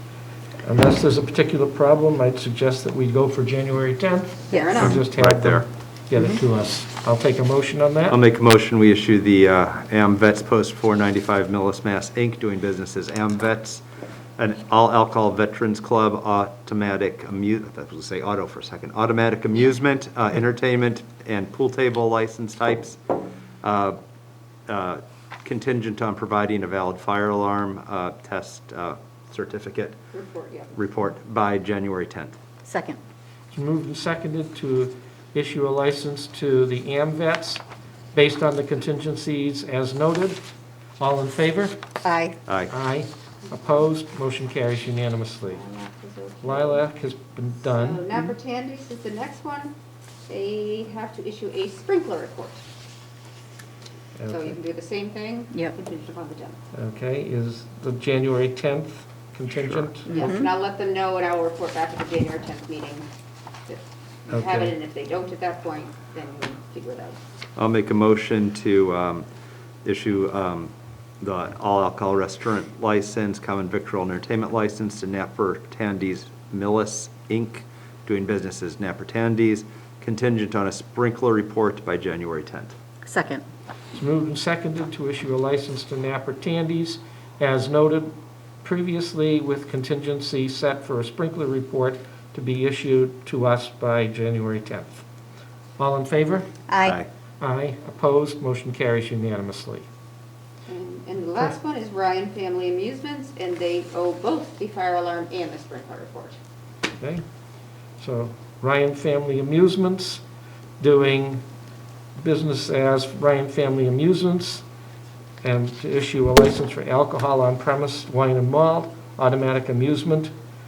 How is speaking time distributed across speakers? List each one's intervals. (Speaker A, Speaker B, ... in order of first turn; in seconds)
Speaker A: 0.6-8.2, 33.5-37.6, 38.1-40.4, 41.0-41.8, 42.7-45.6, 46.4-48.1, 54.2-54.5, 56.7-60.2, 64.3-64.7, 83.9-88.1, 88.6-95.0, 95.8-96.5, 97.4-99.8, 108.0-110.2, 110.8-111.4, 112.2-114.6, 115.4-120.3
Speaker B: 4.5-5.0, 30.1-30.7, 45.5-46.8, 47.6-49.7, 50.3-52.6, 54.3-56.6, 60.1-63.1, 63.7-67.2, 100.7-106.4
Speaker C: 4.5-4.9, 32.6-33.0, 42.0-42.4, 60.1-60.5, 83.0-83.4, 96.7-97.0
Speaker D: 4.8-5.7, 8.1-13.8, 14.4-23.0, 23.6-24.0, 24.7-30.0, 30.7-32.4, 42.5-42.7, 59.6-59.9, 67.6-69.3, 69.8-82.7